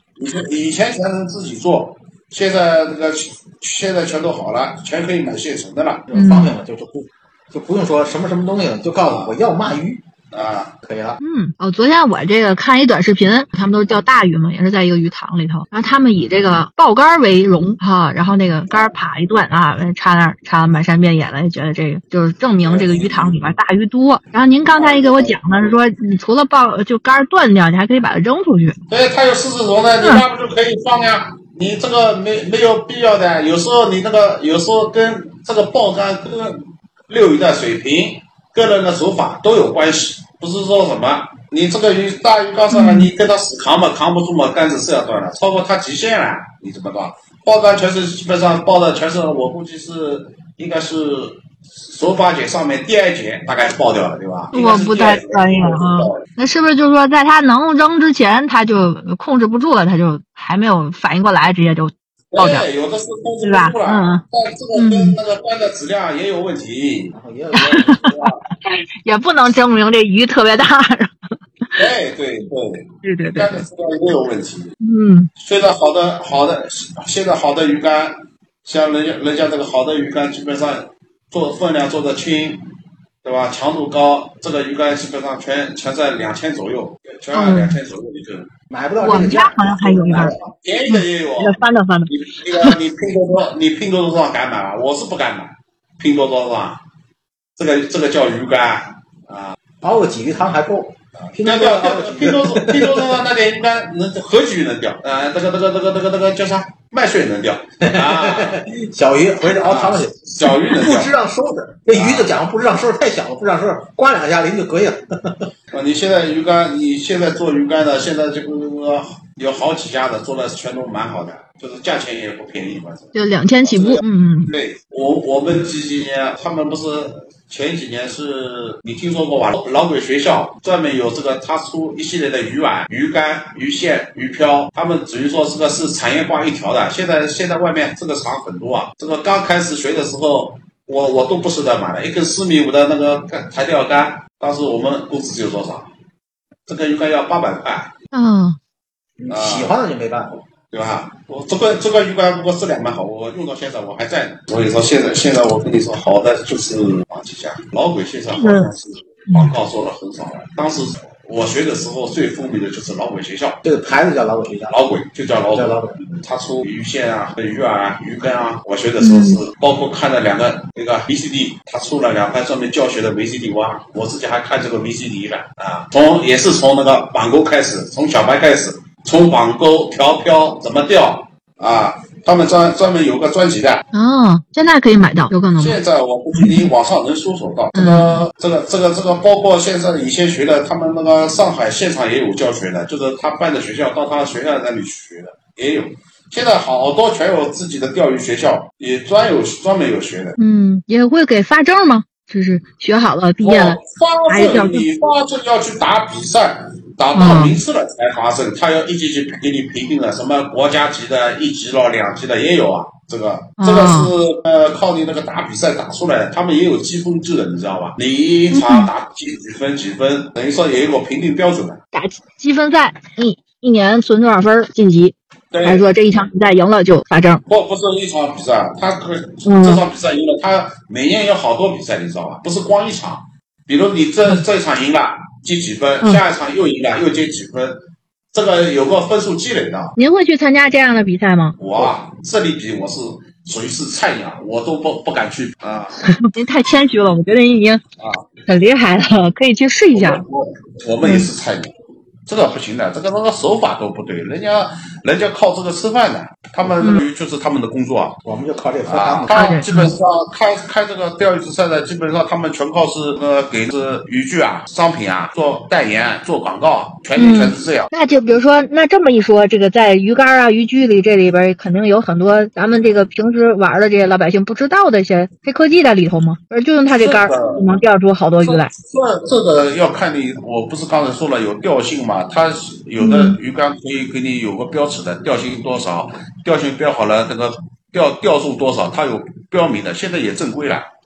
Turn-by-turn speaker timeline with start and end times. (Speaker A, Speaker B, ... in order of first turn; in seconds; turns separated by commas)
Speaker A: 0.2-6.0, Speaker B: 6.1-10.0, Speaker C: 6.1-6.5, Speaker A: 9.0-9.4, Speaker A: 10.3-10.8, Speaker B: 10.8-11.2, Speaker C: 11.2-28.8, Speaker A: 22.6-23.4, Speaker A: 24.7-25.4, Speaker A: 28.9-56.2, Speaker C: 42.7-43.1, Speaker C: 54.5-62.6, Speaker A: 62.3-67.1, Speaker C: 63.4-64.2, Speaker C: 64.7-65.2, Speaker B: 67.1-67.9, Speaker C: 67.7-71.1, Speaker A: 67.9-68.4, Speaker A: 71.7-74.7, Speaker C: 73.0-73.6, Speaker C: 74.8-75.3, Speaker A: 75.4-82.7, Speaker A: 83.2-88.5, Speaker C: 87.3-87.8, Speaker B: 88.7-90.3, Speaker C: 89.0-90.3, Speaker A: 90.2-96.8, Speaker C: 90.9-92.8, Speaker A: 97.5-99.5, Speaker B: 99.8-103.1, Speaker A: 101.2-108.6, Speaker B: 107.8-115.5, Speaker A: 109.5-111.1, Speaker A: 111.9-112.3, Speaker A: 115.7-145.9, Speaker C: 123.1-124.5, Speaker A: 146.7-147.9, Speaker C: 148.1-148.6, Speaker B: 149.2-150.4, Speaker A: 149.3-149.7, Speaker A: 150.7-163.6, Speaker C: 158.3-158.7, Speaker B: 163.6-164.8, Speaker A: 164.7-183.8, Speaker B: 165.5-166.0, Speaker C: 169.0-169.4, Speaker C: 183.9-185.8, Speaker A: 185.6-200.3, Speaker C: 186.3-186.7, Speaker C: 187.7-188.2, Speaker C: 200.4-204.9, Speaker A: 203.4-221.8, Speaker C: 207.1-207.6, Speaker C: 213.6-214.1, Speaker C: 218.5-218.9, Speaker C: 221.9-227.4, Speaker A: 225.5-225.9, Speaker A: 227.5-237.8, Speaker C: 229.4-229.8, Speaker A: 238.3-239.9, Speaker C: 240.0-241.6, Speaker A: 241.6-246.0, Speaker C: 246.2-247.8, Speaker A: 248.0-248.3, Speaker C: 248.5-250.2, Speaker A: 249.9-251.7, Speaker C: 251.0-251.3, Speaker A: 252.2-258.2, Speaker B: 258.2-259.4, Speaker A: 258.9-267.9, Speaker C: 259.3-259.9, Speaker C: 267.1-278.7, Speaker A: 276.9-277.6, Speaker A: 278.4-290.9, Speaker C: 283.0-283.4